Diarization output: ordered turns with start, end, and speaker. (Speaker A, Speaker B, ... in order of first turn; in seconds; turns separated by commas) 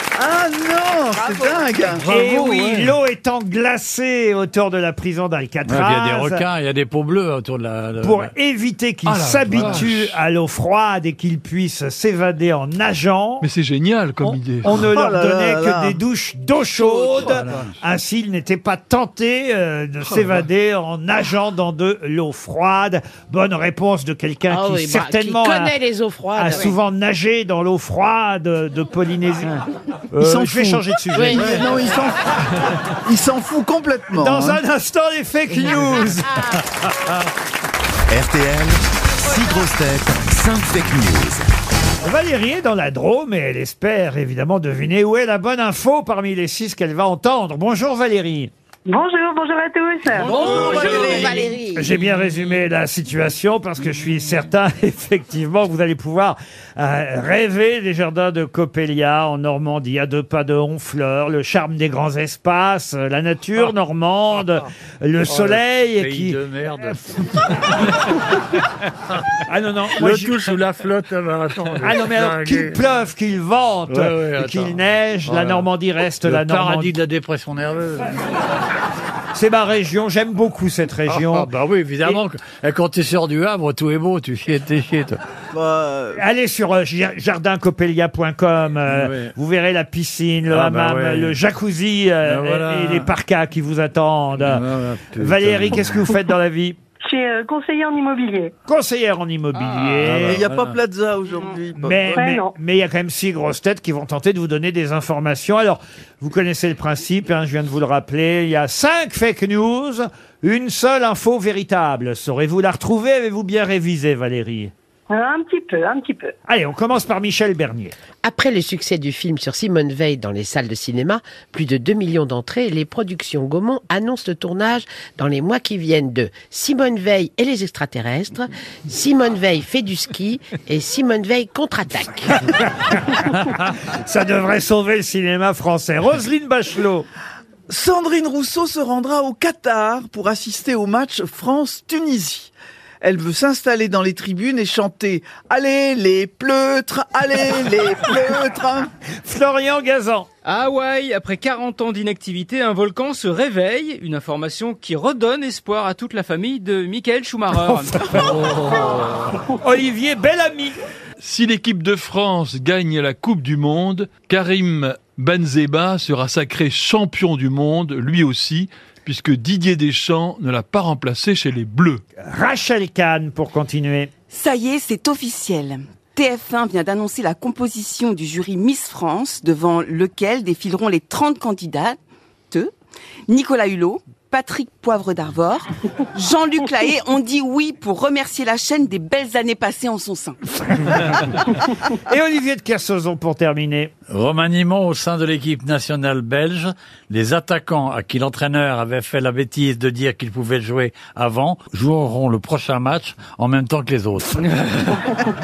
Speaker A: 0.1-2.0, Speaker B: 1.9-2.9, Speaker C: 2.0-6.4, Speaker D: 5.7-8.3, Speaker C: 8.0-13.5, Speaker B: 9.1-10.2, Speaker D: 9.5-9.8, Speaker B: 13.4-14.8, Speaker C: 14.2-25.8, Speaker A: 14.7-16.0, Speaker B: 17.3-17.6, Speaker E: 24.5-26.7, Speaker C: 26.4-29.6, Speaker C: 30.1-31.6, Speaker A: 30.2-32.3, Speaker E: 31.1-31.8, Speaker A: 33.0-34.6, Speaker C: 34.1-36.6, Speaker F: 38.1-41.5, Speaker C: 42.0-48.5, Speaker G: 48.9-50.3, Speaker A: 50.2-51.5, Speaker H: 50.2-51.4, Speaker B: 50.2-51.3, Speaker E: 50.3-51.9, Speaker C: 51.7-67.0, Speaker D: 65.2-67.9, Speaker C: 69.5-70.5, Speaker D: 69.9-72.8, Speaker C: 71.8-76.9, Speaker D: 73.9-74.7, Speaker D: 75.2-75.7, Speaker D: 76.2-78.2, Speaker C: 79.3-81.5, Speaker D: 81.1-85.2, Speaker A: 85.5-86.2, Speaker C: 86.1-96.8, Speaker D: 88.9-89.3, Speaker D: 90.5-91.3, Speaker D: 92.2-93.1, Speaker D: 94.4-96.1, Speaker G: 97.0-98.5, Speaker C: 98.7-100.5, Speaker D: 99.8-100.7, Speaker A: 100.1-102.2, Speaker C: 101.8-114.7, Speaker G: 102.1-102.5, Speaker G: 115.1-116.3, Speaker C: 116.5-117.9, Speaker E: 118.2-132.5, Speaker C: 132.5-137.1, Speaker A: 137.7-148.9, Speaker C: 149.2-150.3, Speaker H: 150.4-158.2, Speaker C: 157.5-158.3, Speaker D: 158.2-159.3, Speaker C: 159.5-160.8, Speaker B: 161.2-172.0, Speaker C: 172.2-174.1, Speaker I: 174.3-182.0, Speaker I: 183.3-190.4, Speaker C: 190.6-191.2, Speaker C: 192.0-193.9, Speaker D: 194.1-204.5